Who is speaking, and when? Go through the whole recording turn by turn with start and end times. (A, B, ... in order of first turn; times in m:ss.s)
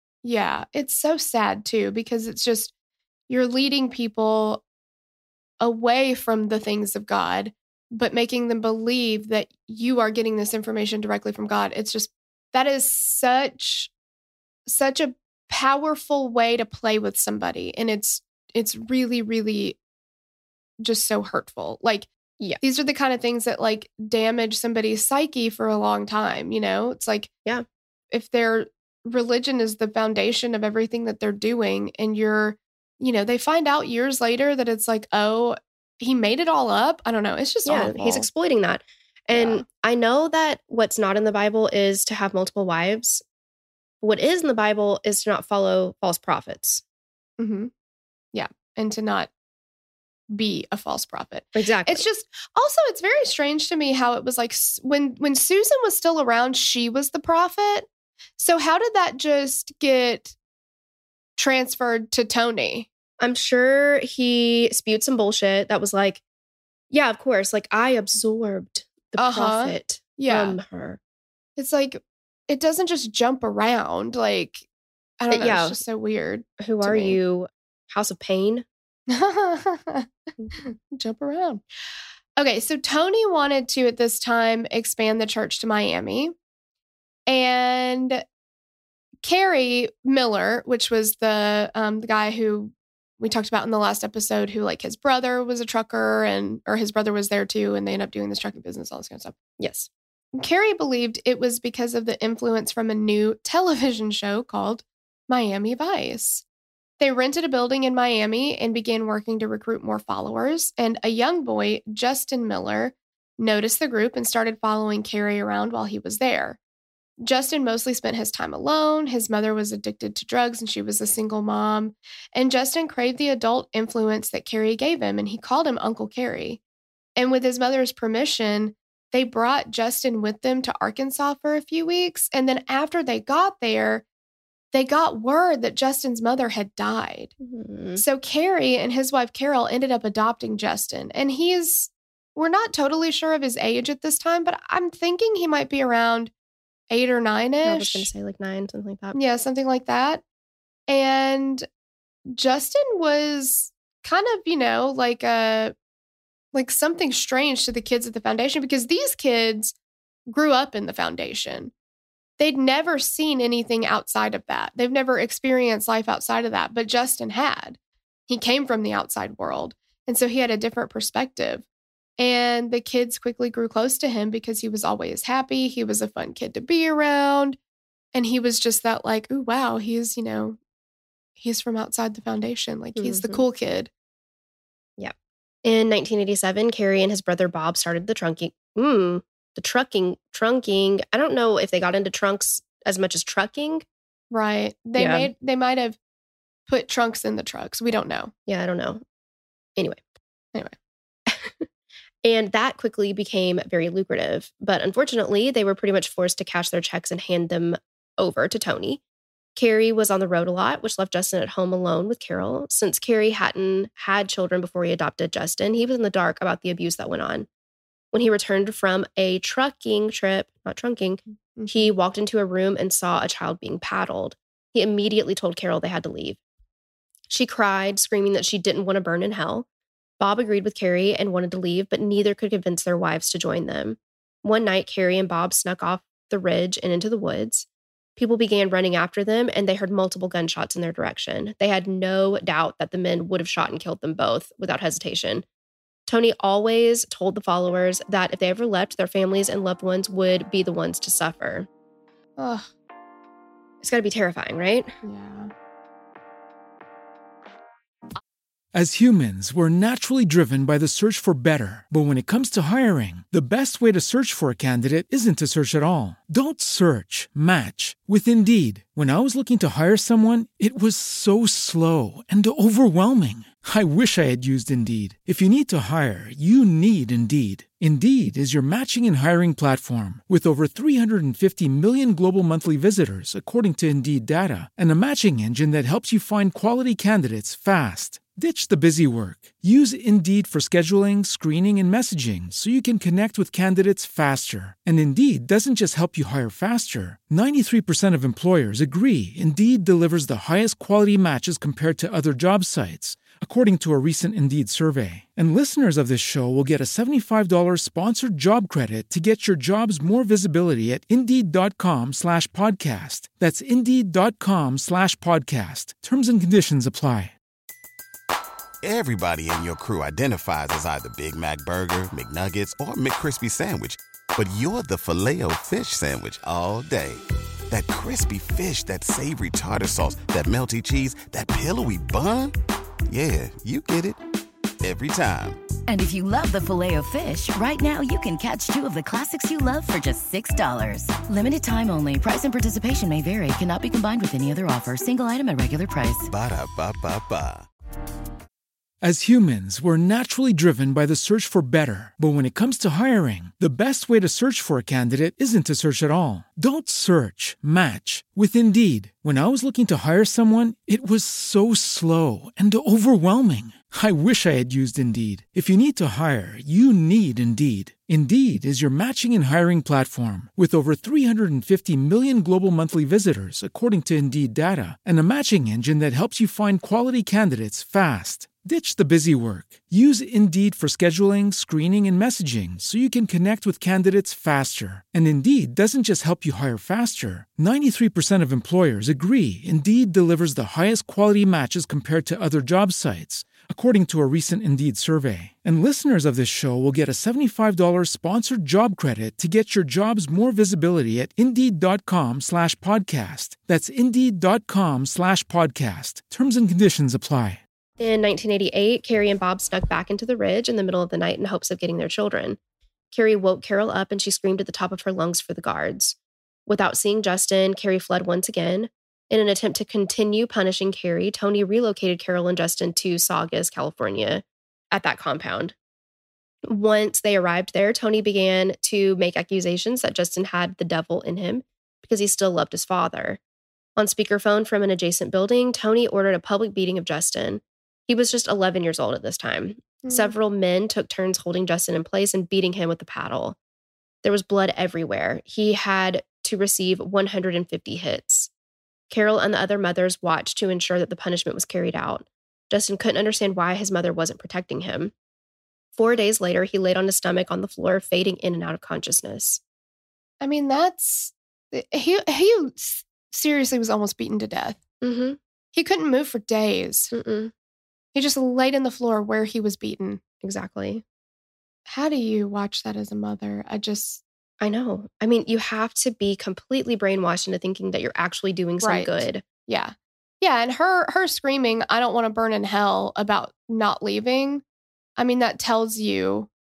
0:00.2-0:02.7 A
0:03.3-0:04.6 A
0:05.6-0:13.9 A
0:14.6-0:19.8 A
0:20.8-0:22.1 A
0:22.6-0:27.3 A
0:28.1-0:38.3 A
0:37.6-0:43.2 B
0:39.3-0:39.6 A
0:44.0-0:46.8 B
0:47.4-0:47.7 A
0:48.3-0:49.3 A
0:50.3-0:57.9 A
0:51.5-0:52.0 B
0:58.4-1:00.3 A
1:01.4-1:02.9 A
1:03.2-1:06.2 B
1:06.9-1:11.0 B
1:09.2-1:10.6 A
1:11.6-1:14.6 A
1:15.2-1:17.2 A
1:15.3-1:15.8 B
1:16.6-1:18.6 B
1:19.1-1:21.6 A
1:22.4-1:26.3 A
1:27.3-1:28.2 A
1:29.2-1:39.4 A
1:39.6-1:39.9 B
1:40.3-1:46.4 A
1:47.0-1:56.6 A
1:57.2-2:06.6 A
2:07.2-2:14.0 A
2:14.7-2:17.3 A
2:17.4-2:18.0 B
2:18.0-2:26.3 A
2:26.9-2:28.1 A
2:27.6-2:29.2 B
2:29.1-2:30.2 A
2:30.9-2:31.7 A
2:32.3-2:35.7 A
2:36.5-2:39.7 A
2:40.3-2:41.7 A
2:42.4-2:51.6 A
2:52.2-2:57.6 A
2:58.1-3:00.6 A
3:01.4-3:03.9 A
3:03.0-3:03.4 B
3:05.0-3:13.8 B
3:14.3-3:16.0 A
3:15.0-3:15.3 B
3:16.7-3:18.3 A
3:18.5-3:19.0 B
3:19.8-3:20.0 B
3:21.3-3:21.7 B
3:22.2-3:29.0 B
3:29.6-3:37.5 B
3:38.1-3:46.4 B
3:41.6-3:41.9 A
3:47.3-3:49.6 B
3:50.2-3:57.6 B
3:58.2-4:05.4 B
4:06.0-4:11.7 B
4:12.4-4:12.7 A
4:13.8-4:14.9 B
4:15.0-4:15.5 A
4:18.7-5:17.3 C
5:18.8-5:32.5 D
5:33.1-5:34.2 D
5:34.8-5:35.6 D
5:35.9-5:46.3 E
5:46.3-5:47.6 D
5:49.0-6:47.6 C
6:48.0-6:52.6 B
6:53.1-7:05.7 B
7:06.6-7:13.4 B
7:14.0-7:23.6 B
7:20.0-7:20.3 A
7:24.2-7:28.5 B
7:29.1-7:35.1 B
7:35.9-7:39.6 B
7:40.4-7:44.8 A
7:45.0-7:45.4 B
7:45.7-7:47.1 A
7:47.1-7:47.5 B
7:48.1-7:50.2 A
7:50.4-7:51.0 B
7:51.9-7:54.2 A
7:54.6-7:59.4 B
7:58.8-8:04.6 A
8:05.2-8:06.5 A